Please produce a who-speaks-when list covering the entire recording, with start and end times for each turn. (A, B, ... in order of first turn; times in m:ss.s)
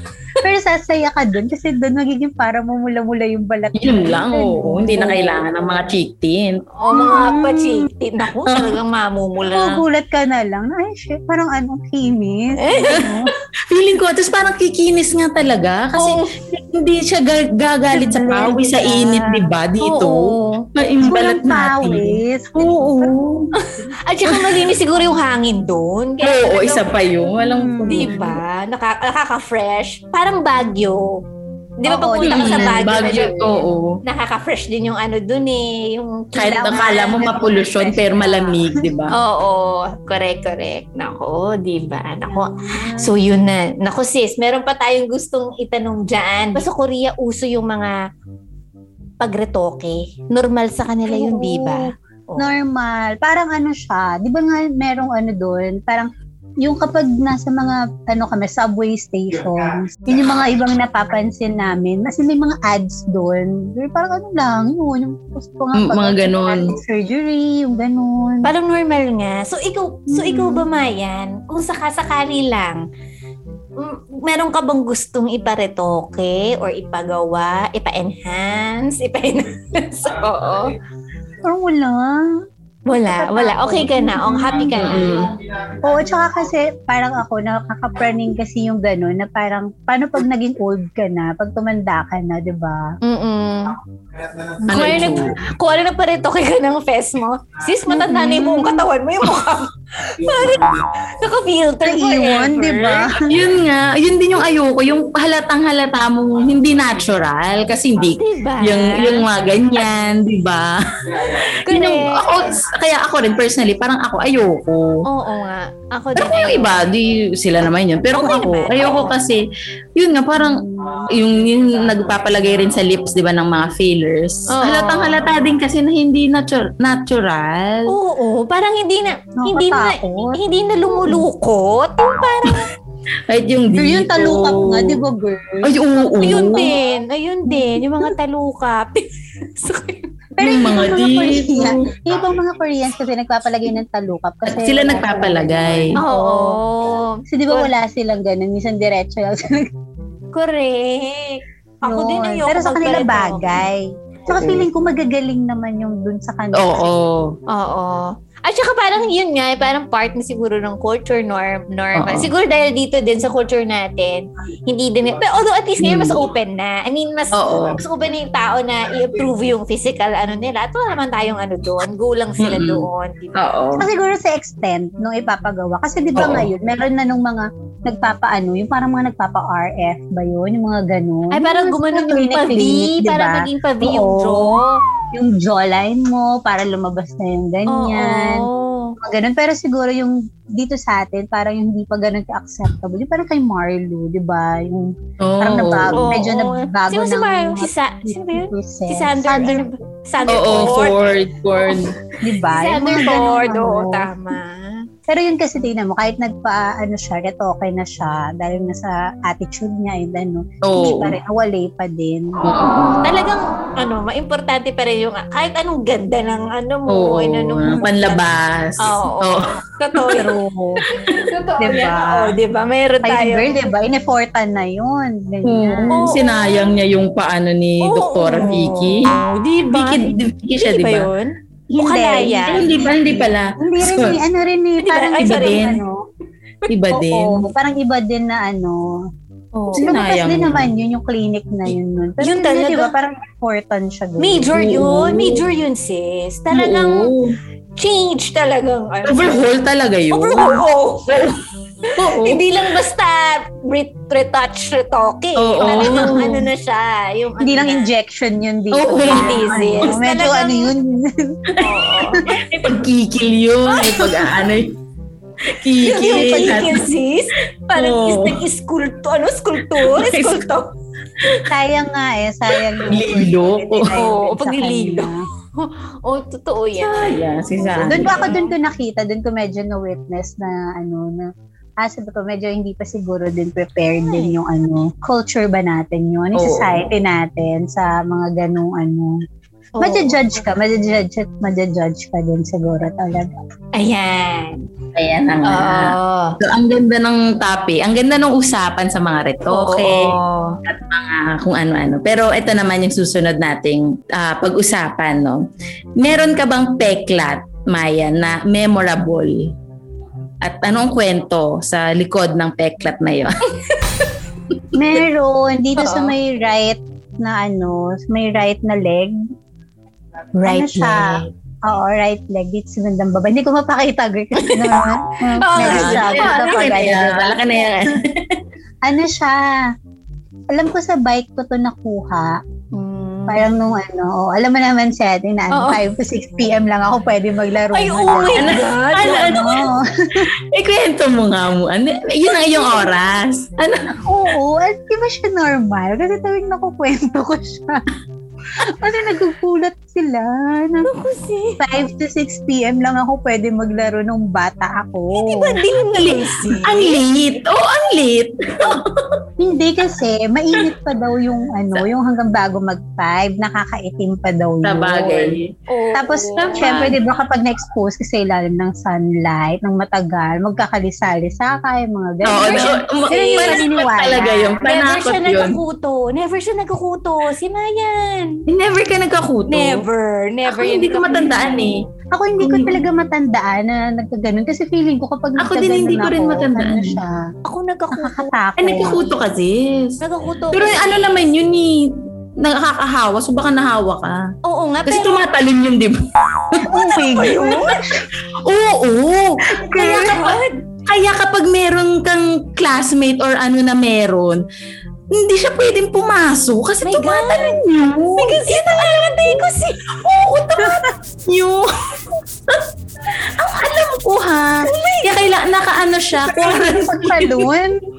0:00.4-0:05.4 A
0:03.7-0:06.6 B
0:06.8-0:09.8 C
0:06.9-0:07.9 A
0:08.4-0:08.7 B
0:09.5-0:13.3 A
0:12.6-0:13.1 C
0:13.7-0:23.5 B
0:16.0-0:16.3 C
0:17.9-0:19.4 A
0:19.8-0:20.6 C
0:21.0-0:23.1 A
0:23.6-0:26.9 C
0:24.3-0:24.6 B
0:26.2-0:28.4 B
0:27.4-0:28.3 A
0:27.9-0:31.2 C
0:31.8-0:37.4 C
0:31.9-0:33.3 A
0:32.2-0:34.0 B
0:36.3-0:39.1 B
0:36.6-0:38.8 A
0:39.1-0:48.0 C
0:42.3-0:43.1 A
0:49.2-0:52.6 C
0:51.1-0:56.1 A
0:56.6-1:08.5 A
1:05.7-1:06.8 B
1:08.4-1:12.8 C
1:10.1-1:10.6 A
1:13.8-1:20.7 C
1:21.4-1:22.3 A
1:22.9-1:25.2 C
1:23.0-1:25.1 A
1:24.7-1:25.3 B
1:25.8-1:33.0 A
1:33.0-1:33.8 C
1:34.6-1:43.1 C
1:34.7-1:35.4 B
1:37.9-1:38.8 A
1:41.8-1:43.4 A
1:43.3-1:55.0 B
1:48.1-1:49.3 C
1:51.6-1:52.2 C
1:55.0-1:56.8 C
1:56.1-1:59.4 B
1:58.1-1:59.1 C
2:00.0-2:07.9 B
2:00.4-2:01.0 A
2:04.5-2:05.2 C
2:07.9-2:12.7 C
2:09.4-2:10.4 A
2:13.3-2:15.0 B
2:13.7-2:16.7 A
2:15.6-2:16.7 B
2:16.2-2:20.1 C
2:17.5-2:17.8 A
2:20.4-2:26.6 A
2:20.4-2:21.9 B
2:24.4-2:25.9 B
2:26.0-2:27.7 C
2:27.3-2:29.7 A
2:30.3-2:33.6 C
2:31.8-2:36.9 A
2:34.3-2:34.7 B
2:36.5-2:37.3 B
2:37.5-2:53.5 C
2:42.0-2:42.3 B
2:45.8-2:46.2 B
2:47.3-2:47.8 B
2:52.4-2:53.8 B
2:53.8-3:04.6 A
2:56.1-2:56.5 B
3:01.3-3:04.8 C
3:05.1-3:08.5 A
3:07.7-3:09.0 C
3:09.0-3:19.7 A
3:15.2-3:16.0 B
3:15.9-3:24.8 C
3:20.3-3:21.9 B
3:22.2-3:24.1 A
3:25.1-3:32.4 A
3:30.6-3:31.2 B
3:32.4-3:33.1 B
3:33.0-3:38.2 C
3:36.9-3:39.5 B
3:38.8-3:40.3 C
3:40.1-3:40.8 A
3:40.9-3:43.6 C
3:41.6-3:42.4 A
3:43.0-3:46.0 A
3:45.4-3:49.1 B
3:45.9-3:46.7 C
3:47.8-3:52.7 C
3:49.7-3:51.1 B
3:51.7-3:56.0 A
3:52.5-3:54.2 B
3:54.8-3:55.7 C
3:55.2-3:55.8 B
3:56.7-3:57.5 B
3:56.9-3:59.0 A
3:59.5-3:59.9 C
3:59.7-4:04.6 A
3:59.7-4:00.7 B
4:02.2-4:02.9 C
4:04.2-4:07.1 C
4:04.5-4:05.4 B
4:06.5-4:07.3 B
4:07.8-4:09.4 C
4:09.0-4:11.4 B
4:10.1-4:11.2 C
4:11.8-4:17.9 C
4:12.0-4:12.4 B
4:15.4-4:16.4 B
4:15.7-4:16.2 A
4:17.4-4:21.6 A
4:18.7-4:19.9 B
4:19.0-4:20.7 C
4:21.6-4:22.3 C
4:22.1-4:22.4 A
4:22.3-4:24.8 B
4:23.6-4:24.3 C
4:25.5-4:26.9 B
4:25.8-4:30.7 C
4:27.7-4:28.4 B
4:29.8-4:30.4 B
4:31.5-4:35.2 A
4:32.8-4:34.0 B
4:33.9-4:38.5 C
4:36.8-4:38.3 B
4:37.8-4:49.2 A
4:44.1-4:44.3 C
4:46.3-4:46.8 B
4:49.8-4:50.2 C
4:49.8-4:53.3 A
4:53.8-4:54.6 C
4:54.9-5:05.4 B
4:55.4-4:56.4 C
4:59.5-5:00.6 C
5:06.0-5:09.5 B
5:10.4-5:13.4 B
5:14.7-5:19.2 A
5:15.8-5:16.1 C
5:20.4-5:21.3 C
5:20.4-5:27.4 A
5:24.4-5:27.0 C
5:25.6-5:28.4 B
5:28.8-5:29.7 A
5:30.5-5:32.4 A
5:32.7-5:33.4 C
5:33.3-5:38.6 A
5:35.5-5:35.8 C
5:37.7-5:39.6 C
5:38.3-5:39.7 B
5:39.1-5:40.3 A
5:40.2-5:44.0 B
5:44.0-5:47.9 A
5:48.6-5:50.9 A
5:50.8-5:51.6 C
5:51.6-5:55.6 A
5:55.1-5:57.0 C
5:56.0-5:59.2 B
5:59.4-6:05.4 A
6:04.6-6:05.5 B
6:05.7-6:06.9 C
6:05.9-6:14.3 A
6:06.4-6:07.0 B
6:12.2-6:15.6 B
6:12.3-6:13.8 C
6:14.6-6:18.4 C
6:18.5-6:19.8 B
6:19.5-6:21.8 C
6:20.4-6:21.8 B
6:22.1-6:27.2 A
6:22.4-6:22.8 B
6:25.4-6:27.0 B
6:27.4-6:28.3 C
6:27.9-6:29.0 A
6:28.6-6:30.0 B
6:30.0-6:31.3 C
6:30.5-6:34.3 B
6:34.4-6:35.2 C
6:34.8-6:36.7 B
6:36.6-6:37.9 C
6:36.6-6:38.0 A
6:38.4-6:44.4 B
6:39.5-6:40.2 A
6:39.6-6:40.6 C
6:45.1-6:57.5 B
6:46.8-6:47.6 C
6:48.1-6:49.9 C
6:54.6-6:55.2 C
6:56.3-6:57.8 A